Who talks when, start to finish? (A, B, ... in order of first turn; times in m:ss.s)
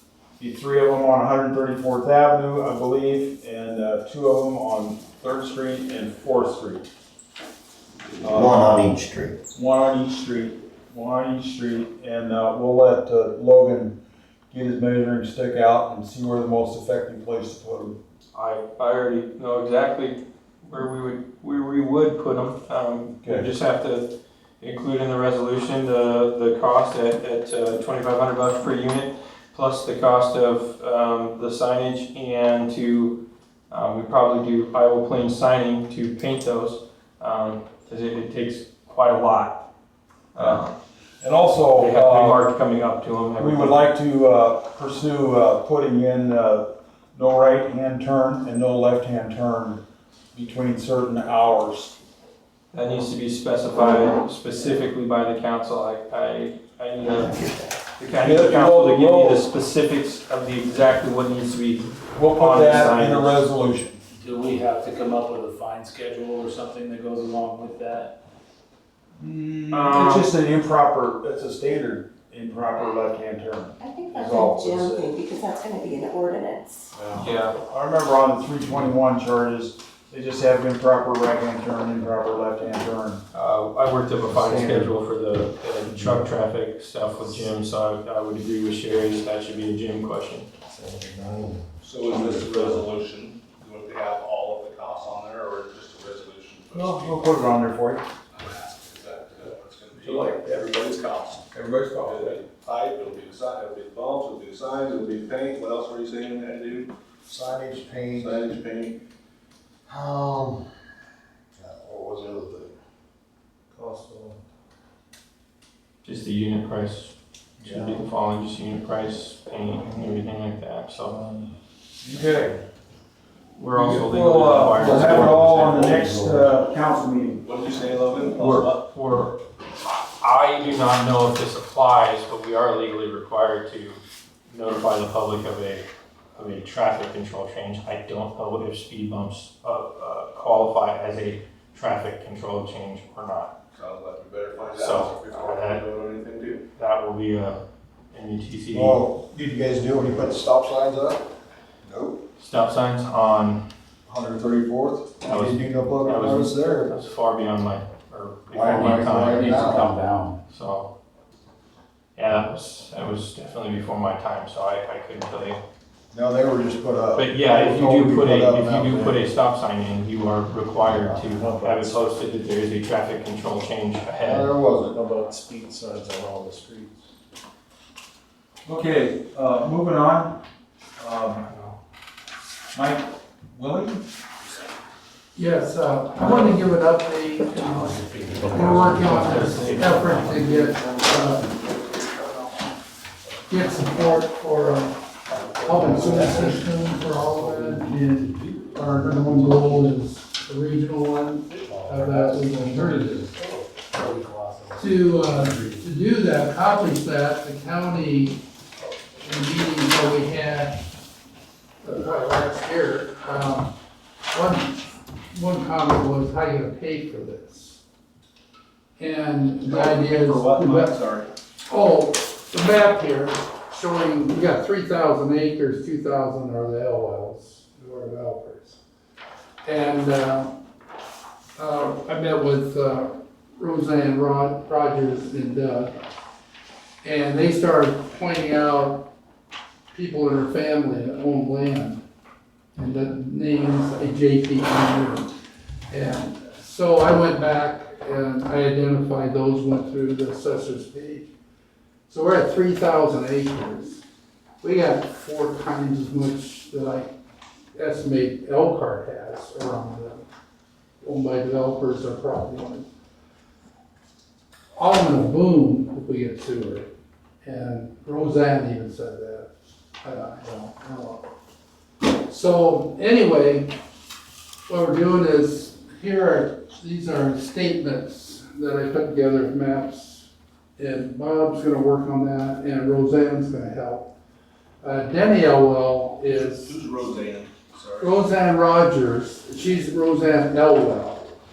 0:00.4-0:06.9 A
0:08.2-0:09.0 A
0:08.3-0:09.4 B
0:09.5-0:14.0 A
0:14.5-0:18.0 A
0:18.3-0:24.1 C
0:23.2-0:23.5 A
0:24.6-0:33.2 C
0:33.7-0:39.6 C
0:40.3-0:40.7 C
0:41.2-0:42.4 A
0:41.8-0:43.8 C
0:43.4-0:49.8 A
0:50.3-0:52.0 A
0:52.7-1:03.4 C
0:58.1-0:59.4 A
1:02.2-1:04.0 A
1:04.1-1:08.1 D
1:09.2-1:15.1 A
1:09.7-1:10.3 C
1:13.8-1:16.9 E
1:17.0-1:23.2 A
1:17.2-1:17.6 C
1:23.3-1:30.5 C
1:24.4-1:24.9 B
1:30.8-1:31.6 B
1:31.8-1:37.5 F
1:36.7-1:38.0 A
1:38.3-1:41.5 F
1:40.0-1:40.6 A
1:41.5-1:42.4 A
1:42.0-1:46.9 F
1:47.3-1:48.4 B
1:48.1-1:49.0 F
1:49.9-1:50.6 B
1:51.6-1:52.7 B
1:53.8-1:54.4 D
1:56.0-2:01.2 C
1:57.6-1:58.0 B
2:02.0-2:02.6 A
2:03.6-2:05.9 C
2:03.7-2:07.4 A
2:04.8-2:06.5 D
2:07.4-2:08.8 F
2:08.4-2:09.4 C
2:10.2-2:23.5 C
2:23.7-2:26.6 F
2:24.8-2:25.8 C
2:26.8-2:27.6 C
2:28.1-2:29.0 C
2:28.7-2:31.2 B
2:31.8-2:32.2 B
2:32.4-2:33.6 C
2:34.1-2:37.0 B
2:35.2-2:39.5 C
2:38.5-2:39.9 B
2:38.6-2:40.4 D
2:40.5-2:40.9 C
2:42.2-2:45.6 C
2:46.1-2:49.2 B
2:47.2-2:54.5 C
2:50.9-2:51.3 B
2:51.3-2:52.0 D
2:54.2-2:55.0 B
2:54.9-2:57.0 D
2:58.6-3:00.4 A
3:01.0-3:01.5 A
3:01.5-3:01.8 C
3:02.7-3:04.0 A
3:05.4-3:11.5 G
3:07.6-3:10.2 D
3:09.0-3:10.6 C
3:10.6-3:12.5 B
3:13.5-3:15.0 G
3:15.4-3:15.9 C
3:15.6-3:23.4 G
3:15.7-3:16.5 D
3:17.1-3:19.9 D
3:21.7-3:25.9 D
3:24.8-3:28.4 G
3:29.1-3:30.8 G
3:31.8-3:33.7 G
3:34.3-3:37.8 G
3:39.0-3:40.9 G
3:39.6-3:41.3 F
3:41.7-3:48.8 G
3:49.6-3:50.5 G
3:51.6-3:56.0 G
3:57.0-3:59.0 G
3:59.9-4:02.0 G
4:02.8-4:05.3 G
4:05.9-4:11.3 G
4:12.1-4:14.0 G
4:14.6-4:17.1 G
4:17.8-4:20.2 G
4:21.0-4:22.9 G
4:24.8-4:26.9 G
4:27.4-4:31.3 G
4:32.0-4:33.7 G
4:34.7-4:44.1 G
4:44.8-4:46.8 G
4:46.6-4:48.2 F
4:48.0-4:51.2 G